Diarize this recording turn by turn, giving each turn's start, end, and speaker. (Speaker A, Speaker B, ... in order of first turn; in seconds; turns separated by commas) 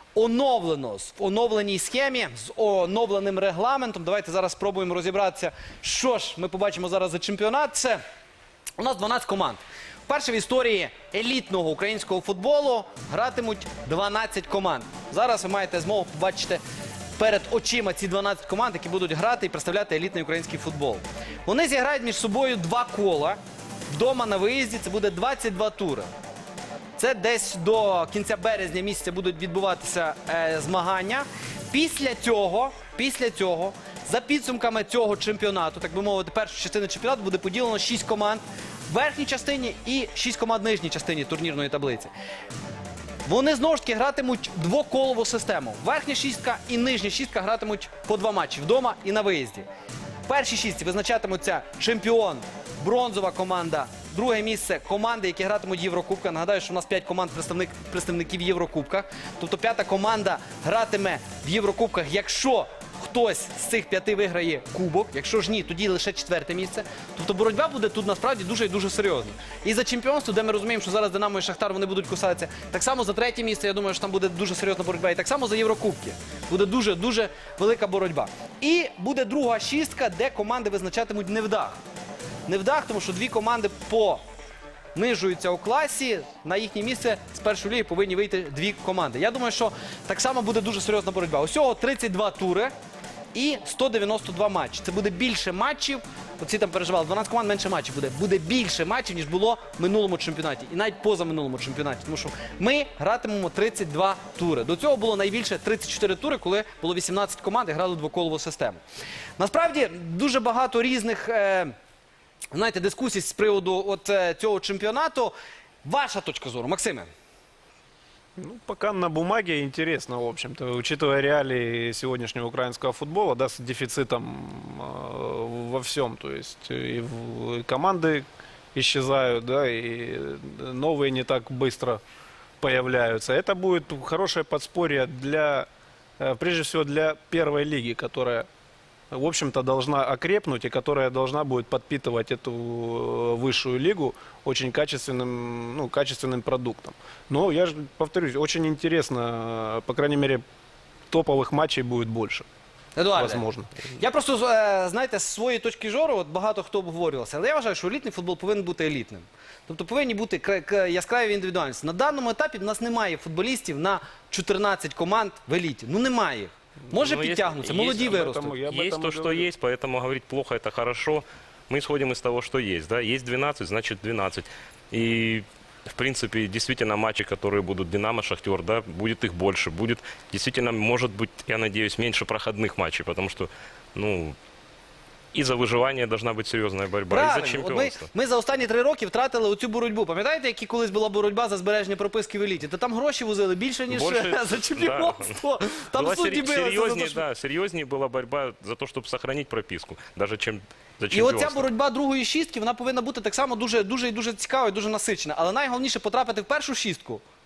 Speaker A: 0.1-8.0, Speaker A: 8.8-16.6, Speaker A: 17.2-23.4, Speaker A: 23.9-26.1, Speaker A: 27.0-42.1, Speaker A: 43.2-49.6, Speaker A: 50.3-81.8, Speaker A: 82.5-84.2, Speaker A: 84.9-92.7, Speaker A: 93.3-108.8, Speaker A: 109.4-111.7, Speaker A: 112.5-115.3, Speaker A: 115.8-117.1, Speaker B: 118.4-132.0, Speaker B: 132.6-135.7, Speaker B: 136.2-138.4, Speaker B: 139.1-150.4, Speaker B: 151.1-152.4, Speaker A: 152.9-168.6, Speaker B: 153.2-153.9, Speaker C: 166.9-184.3, Speaker B: 167.8-169.5, Speaker C: 185.3-188.1, Speaker A: 187.1-197.2, Speaker C: 193.9-201.6, Speaker A: 201.1-207.2